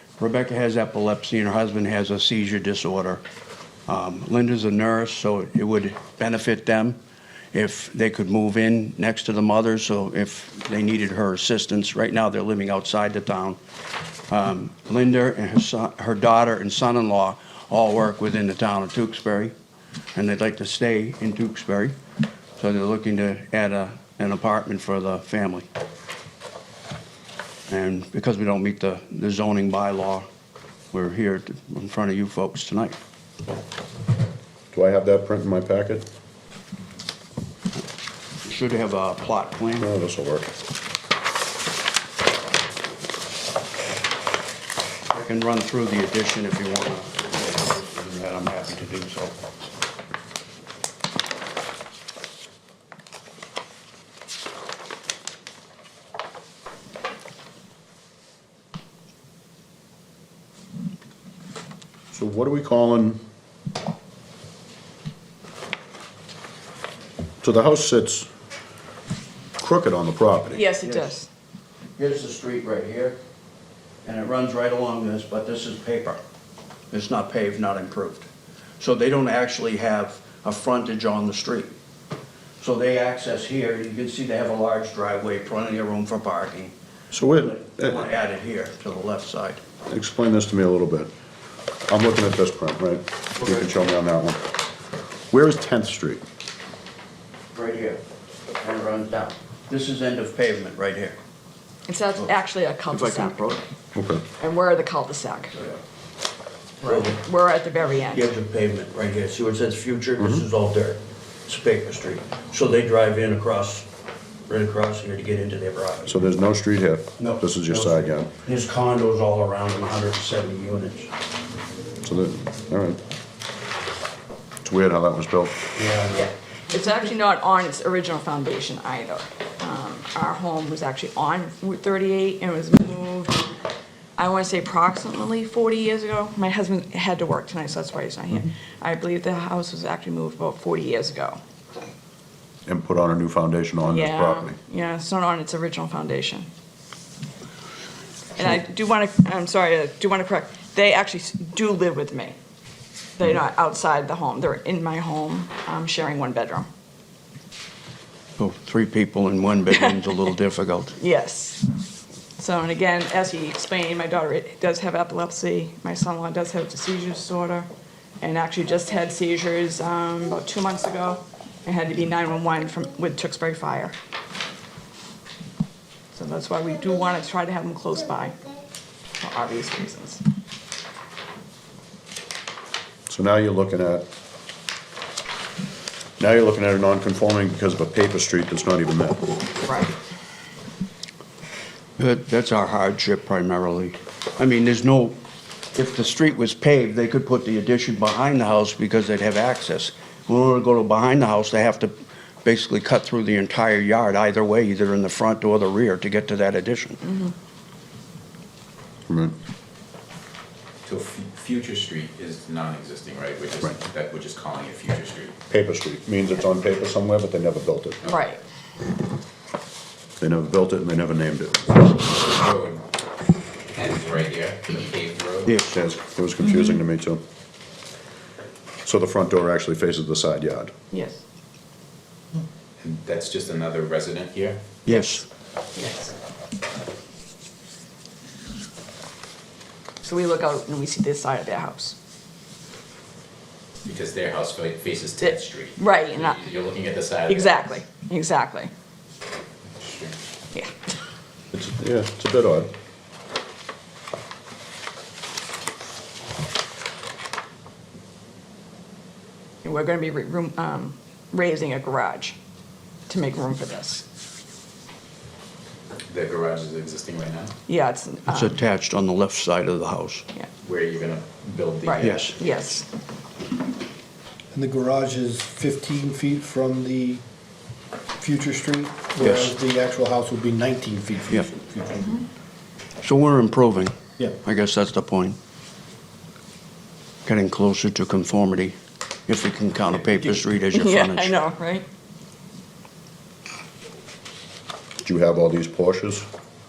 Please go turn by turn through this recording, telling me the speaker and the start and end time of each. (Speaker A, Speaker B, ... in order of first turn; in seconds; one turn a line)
Speaker A: 0.2-3.2
Speaker A: 3.9-7.0
Speaker A: 7.5-13.6
Speaker A: 14.3-19.5
Speaker A: 20.1-22.0
Speaker A: 22.6-25.7
Speaker A: 27.7-30.2
Speaker A: 30.9-33.0
Speaker B: 34.7-36.0
Speaker A: 38.4-39.9
Speaker B: 39.8-40.5
Speaker A: 45.1-49.4
Speaker B: 62.1-63.2
Speaker B: 67.4-68.3
Speaker B: 69.6-70.6
Speaker C: 70.5-71.3
Speaker A: 70.8-71.1
Speaker A: 72.0-73.2
Speaker A: 74.0-76.2
Speaker A: 76.9-78.3
Speaker A: 78.8-81.7
Speaker A: 82.6-86.7
Speaker B: 87.1-88.0
Speaker A: 87.4-89.6
Speaker B: 89.9-91.1
Speaker B: 91.9-94.5
Speaker A: 93.4-93.7
Speaker B: 95.3-96.2
Speaker A: 97.5-98.0
Speaker A: 98.6-101.2
Speaker C: 101.9-103.5
Speaker A: 102.9-103.6
Speaker B: 103.9-104.2
Speaker C: 104.4-105.5
Speaker A: 105.5-105.8
Speaker C: 106.8-108.2
Speaker A: 106.8-107.2
Speaker A: 108.1-113.9
Speaker B: 110.2-110.4
Speaker A: 114.5-116.2
Speaker B: 116.1-118.3
Speaker A: 117.2-121.1
Speaker B: 122.0-123.0
Speaker B: 124.6-125.6
Speaker A: 125.7-126.3
Speaker C: 126.2-133.5
Speaker C: 134.2-141.4
Speaker B: 142.7-144.6
Speaker C: 143.9-146.5
Speaker C: 148.3-152.3
Speaker C: 153.2-156.7
Speaker A: 158.4-161.0
Speaker C: 161.0-161.7
Speaker C: 162.4-167.7
Speaker C: 168.2-173.9
Speaker C: 176.1-178.3
Speaker C: 179.2-180.2
Speaker B: 183.1-184.1
Speaker B: 186.2-189.4
Speaker C: 189.6-189.9
Speaker A: 192.0-195.2
Speaker A: 195.7-207.2
Speaker B: 209.1-209.3
Speaker D: 210.8-215.3
Speaker B: 215.5-218.0
Speaker C: 218.0-218.4
Speaker B: 220.2-221.8
Speaker D: 222.0-222.8
Speaker D: 223.7-225.6
Speaker A: 225.4-225.8
Speaker B: 225.7-227.2
Speaker B: 228.8-230.7
Speaker C: 230.9-231.2
Speaker D: 232.8-234.8
Speaker A: 234.8-235.2
Speaker C: 235.7-236.1
Speaker C: 240.0-242.0
Speaker D: 243.8-247.7
Speaker C: 245.2-246.4
Speaker C: 247.3-248.7
Speaker D: 249.8-250.2
Speaker B: 251.5-252.7
Speaker C: 259.6-262.3
Speaker C: 263.1-264.0
Speaker D: 266.1-267.6
Speaker C: 267.7-268.6
Speaker A: 268.3-270.2
Speaker D: 270.6-272.6
Speaker C: 271.8-272.9
Speaker A: 272.0-272.3
Speaker E: 274.5-277.2
Speaker E: 278.2-282.2
Speaker A: 279.2-279.5
Speaker A: 283.0-285.4
Speaker A: 287.2-288.8
Speaker A: 289.3-291.3
Speaker C: 290.7-291.8
Speaker B: 295.0-296.2